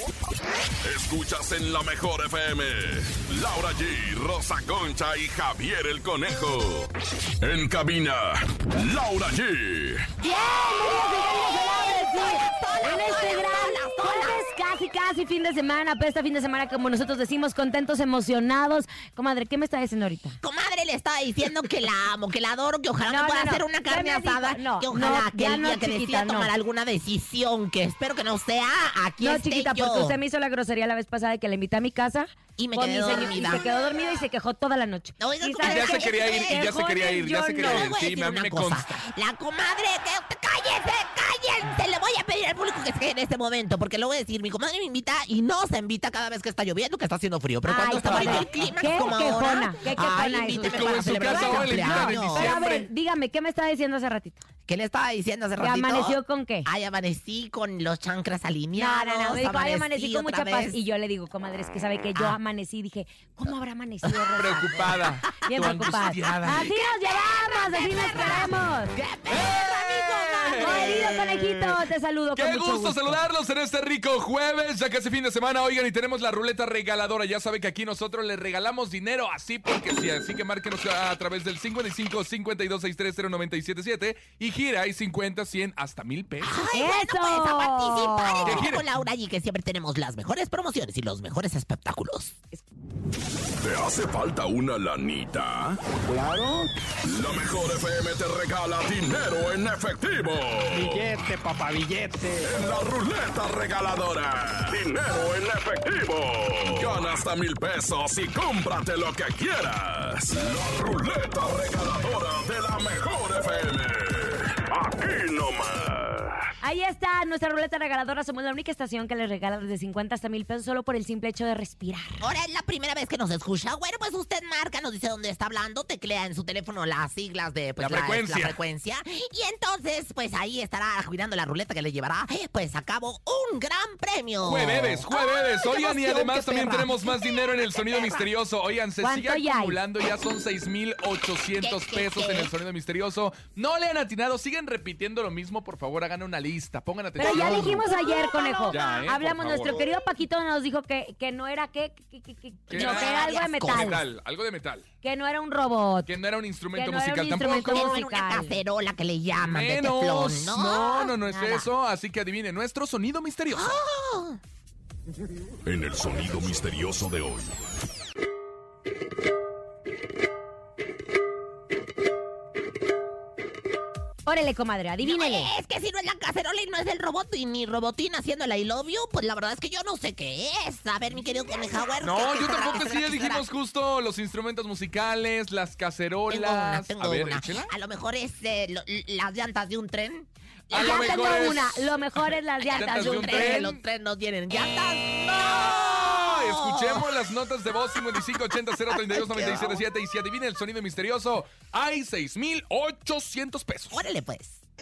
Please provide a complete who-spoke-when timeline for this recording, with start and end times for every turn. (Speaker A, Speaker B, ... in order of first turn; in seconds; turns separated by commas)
Speaker A: 0.8-10.1, Speaker B: 10.2-20.4, Speaker C: 10.5-14.4, Speaker C: 20.4-30.2, Speaker B: 23.1-26.5, Speaker B: 29.2-37.9, Speaker C: 32.6-33.6, Speaker C: 35.2-36.8, Speaker D: 35.6-39.0, Speaker C: 37.5-52.6, Speaker B: 47.6-54.4, Speaker D: 48.0-48.6, Speaker D: 50.6-52.9, Speaker C: 54.7-60.8, Speaker B: 55.6-56.7, Speaker B: 58.8-68.9, Speaker C: 64.0-71.2, Speaker D: 64.3-66.7, Speaker D: 69.3-71.7, Speaker B: 70.6-73.2, Speaker D: 72.3-86.5, Speaker C: 86.4-92.4, Speaker B: 86.7-88.6, Speaker D: 88.4-88.9, Speaker A: 93.6-95.8, Speaker E: 96.0-96.7, Speaker A: 97.0-101.1, Speaker E: 100.7-102.5, Speaker A: 102.4-116.4, Speaker B: 116.6-122.2, Speaker C: 122.2-138.3, Speaker D: 127.8-128.6, Speaker D: 134.4-147.8, Speaker B: 139.0-139.8, Speaker C: 141.6-142.5, Speaker C: 147.2-149.0, Speaker B: 147.2-154.0, Speaker D: 148.7-149.8, Speaker D: 152.7-154.8, Speaker C: 152.7-154.0, Speaker B: 155.0-156.1, Speaker D: 156.1-157.9, Speaker B: 156.7-158.6, Speaker C: 157.5-161.1, Speaker D: 159.5-163.8, Speaker B: 160.9-161.7, Speaker C: 163.5-164.4, Speaker A: 165.7-167.5, Speaker B: 174.2-175.5, Speaker C: 175.0-183.5, Speaker D: 182.0-187.7, Speaker C: 186.3-191.6, Speaker D: 190.7-191.8, Speaker B: 190.7-193.7, Speaker D: 192.6-193.8, Speaker C: 192.6-197.1, Speaker D: 195.6-204.0, Speaker C: 198.9-199.8, Speaker C: 203.9-204.6